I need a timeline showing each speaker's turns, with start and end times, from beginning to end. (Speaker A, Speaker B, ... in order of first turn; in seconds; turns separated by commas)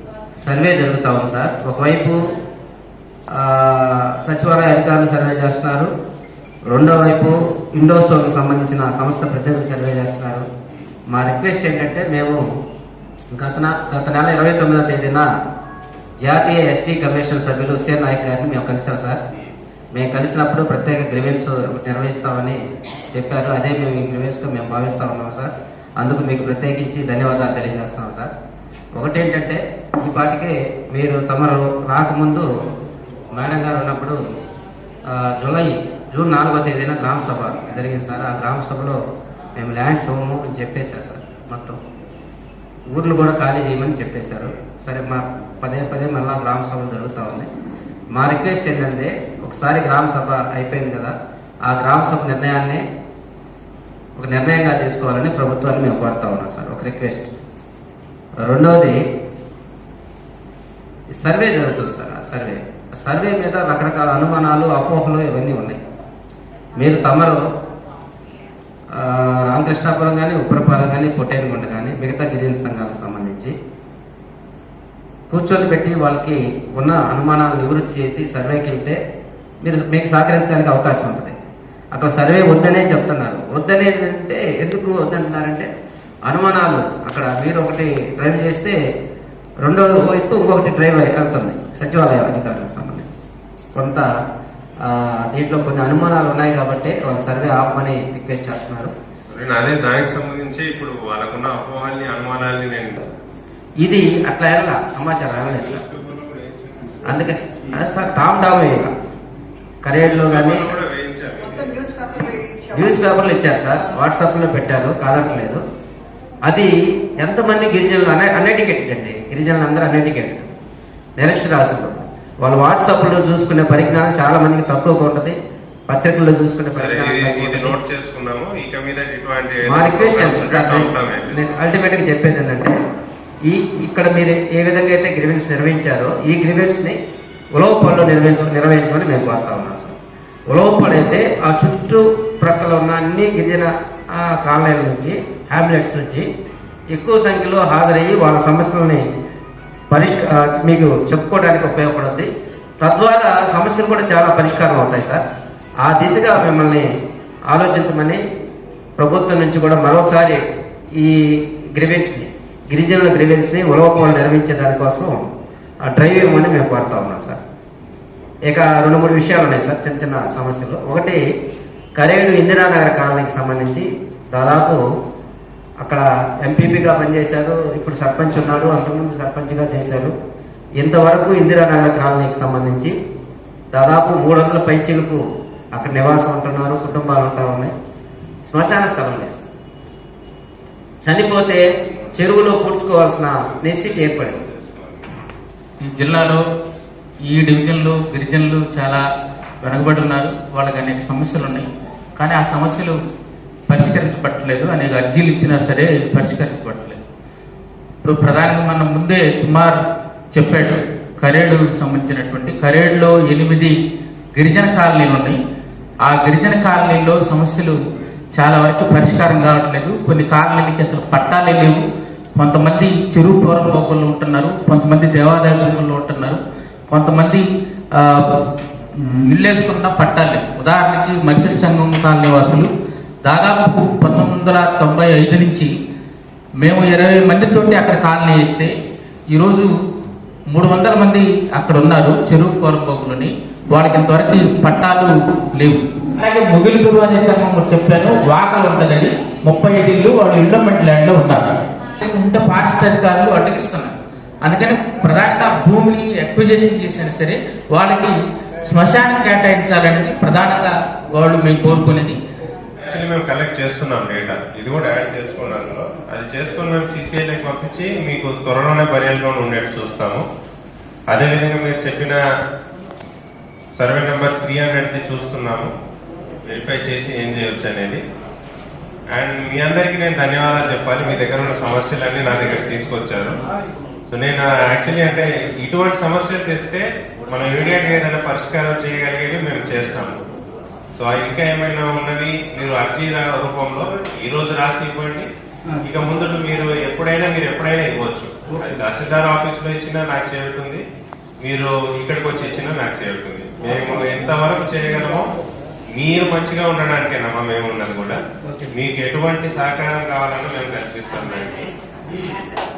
Speaker A: 0.4-2.2, Speaker A: 3.3-5.9, Speaker A: 6.7-10.5, Speaker A: 11.1-12.4, Speaker A: 13.3-15.3, Speaker A: 16.2-19.2, Speaker A: 19.9-22.6, Speaker A: 23.1-28.3, Speaker A: 29.0-32.5, Speaker A: 33.3-34.2, Speaker A: 35.1-39.0, Speaker A: 39.6-41.8, Speaker A: 42.9-47.5, Speaker A: 48.1-51.1, Speaker A: 51.7-52.8, Speaker A: 54.2-57.3, Speaker A: 58.4-59.0, Speaker A: 61.1-65.8, Speaker A: 66.8-67.4, Speaker A: 68.9-73.5, Speaker A: 75.3-79.0, Speaker A: 79.6-81.3, Speaker A: 81.9-85.7, Speaker A: 86.3-88.8, Speaker A: 89.6-93.2, Speaker A: 93.8-94.1, Speaker A: 94.8-98.9, Speaker B: 99.3-103.0, Speaker A: 103.8-105.8, Speaker B: 105.5-107.2, Speaker A: 107.0-108.9, Speaker A: 109.8-110.8, Speaker B: 110.0-112.0, Speaker A: 112.7-115.6, Speaker A: 116.5-120.5, Speaker A: 121.2-125.4, Speaker A: 125.9-127.8, Speaker B: 126.8-131.6, Speaker A: 129.6-132.8, Speaker A: 133.5-137.0, Speaker A: 137.6-139.9, Speaker A: 140.5-146.3, Speaker A: 146.9-149.0, Speaker A: 149.9-152.3, Speaker A: 152.8-155.2, Speaker A: 155.8-156.9, Speaker A: 157.5-158.2, Speaker A: 159.0-160.4, Speaker A: 161.0-165.2, Speaker A: 165.9-167.4, Speaker A: 168.5-171.2, Speaker A: 172.0-174.8, Speaker A: 175.8-180.2, Speaker A: 180.8-182.9, Speaker A: 183.7-185.2, Speaker A: 185.7-187.7, Speaker A: 188.5-189.5, Speaker A: 191.0-194.4, Speaker B: 193.6-195.1, Speaker C: 195.8-196.4, Speaker C: 197.2-199.0, Speaker C: 199.6-203.0, Speaker C: 203.7-207.0, Speaker C: 208.0-209.8, Speaker C: 210.3-213.8, Speaker C: 214.3-215.4, Speaker C: 216.1-217.8, Speaker C: 218.3-221.8, Speaker C: 222.4-232.7, Speaker C: 233.2-235.7, Speaker C: 236.6-238.7, Speaker C: 239.3-239.7, Speaker C: 240.5-262.2, Speaker B: 262.9-270.2, Speaker B: 271.1-272.2, Speaker B: 273.8-275.7, Speaker B: 276.5-278.0, Speaker B: 279.1-283.4, Speaker B: 284.1-290.2, Speaker B: 291.0-295.3, Speaker B: 295.8-300.9, Speaker B: 301.4-305.3, Speaker B: 305.9-308.2, Speaker B: 308.7-312.4